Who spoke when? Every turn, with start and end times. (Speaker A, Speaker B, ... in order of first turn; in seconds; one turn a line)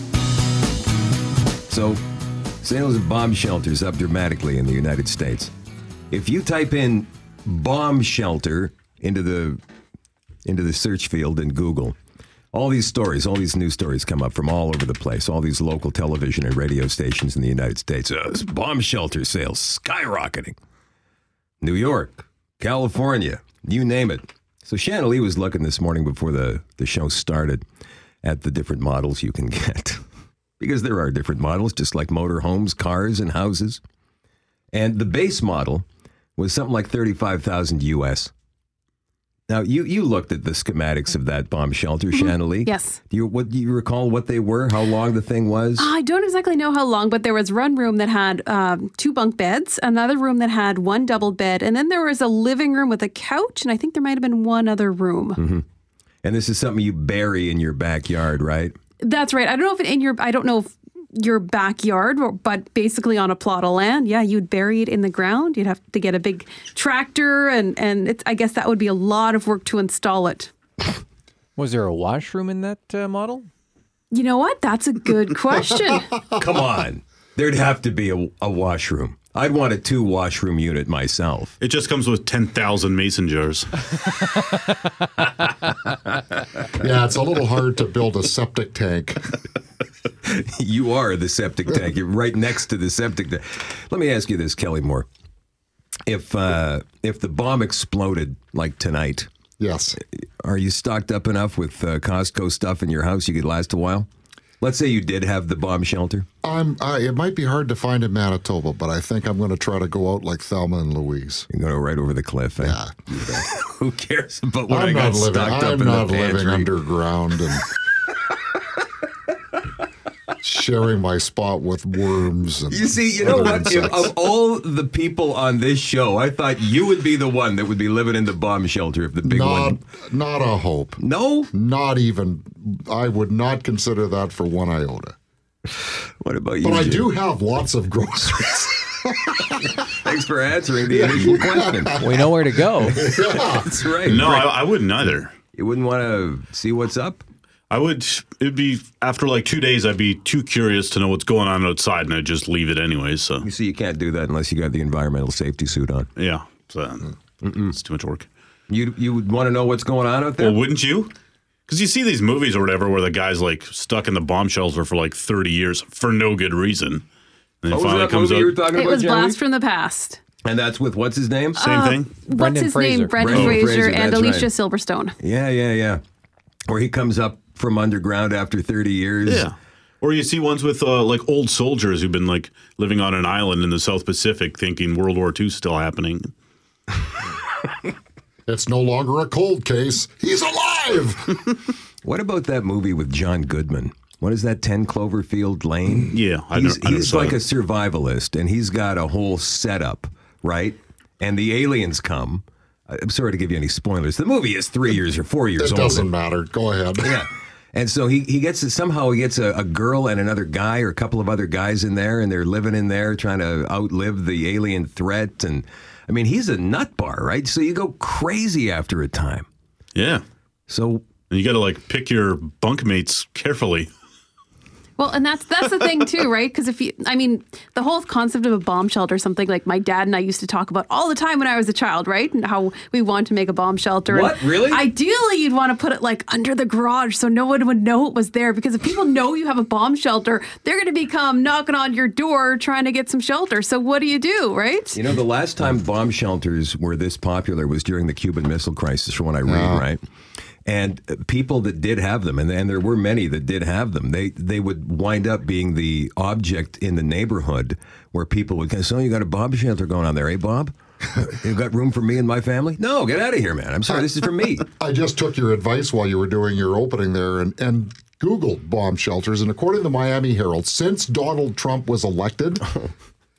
Speaker A: 1.7-2.0
Speaker A: 2.6-5.5
Speaker A: 6.1-9.6
Speaker A: 10.4-12.0
Speaker A: 12.5-20.6
Speaker A: 21.6-27.6
Speaker A: 28.2-30.0
Speaker A: 30.6-33.8
Speaker A: 34.7-35.8
Speaker A: 36.4-38.3
Speaker A: 39.5-45.9
Speaker B: 42.1-43.0
Speaker B: 45.8-55.4
Speaker A: 55.4-55.6
Speaker A: 56.2-58.8
Speaker B: 59.0-70.5
Speaker C: 71.5-73.5
Speaker B: 74.1-76.1
Speaker A: 76.4-81.5
Speaker D: 81.6-83.7
Speaker E: 86.7-89.3
Speaker A: 90.2-95.1
Speaker A: 96.1-99.3
Speaker E: 99.6-100.0
Speaker A: 100.4-104.1
Speaker A: 104.6-106.3
Speaker E: 106.4-111.5
Speaker A: 111.5-116.7
Speaker E: 112.6-112.9
Speaker E: 114.7-117.6
Speaker E: 120.4-124.1
Speaker A: 122.7-129.8
Speaker E: 129.2-131.0
Speaker A: 131.0-131.5
Speaker E: 131.5-135.1
Speaker A: 135.8-137.1
Speaker E: 136.6-139.8
Speaker A: 140.0-142.0
Speaker E: 140.9-142.3
Speaker C: 141.9-143.1
Speaker E: 142.9-144.4
Speaker A: 142.9-144.3
Speaker D: 144.0-145.3
Speaker A: 145.5-147.2
Speaker D: 147.7-153.5
Speaker A: 153.4-156.1
Speaker D: 156.2-157.1
Speaker A: 157.4-157.8
Speaker D: 157.7-158.3
Speaker A: 158.7-160.6
Speaker D: 160.4-161.1
Speaker D: 161.7-167.0
Speaker D: 167.6-168.6
Speaker A: 167.7-169.4
Speaker B: 168.7-170.2
Speaker A: 170.4-171.6
Speaker B: 171.6-175.2
Speaker D: 171.6-172.2
Speaker C: 172.3-173.5
Speaker A: 173.2-174.5
Speaker D: 173.3-173.6
Speaker A: 175.2-176.0
Speaker A: 176.7-179.5
Speaker D: 179.2-186.3
Speaker E: 188.5-191.5
Speaker A: 192.0-206.1
Speaker D: 195.9-197.4
Speaker E: 205.6-207.2
Speaker A: 207.0-219.5
Speaker D: 219.9-220.2
Speaker A: 220.7-221.1
Speaker D: 221.3-223.9
Speaker B: 225.0-245.0
Speaker A: 234.1-234.8
Speaker A: 244.9-250.0
Speaker E: 249.4-249.8
Speaker A: 250.7-264.7
Speaker E: 264.7-272.6
Speaker A: 272.7-272.9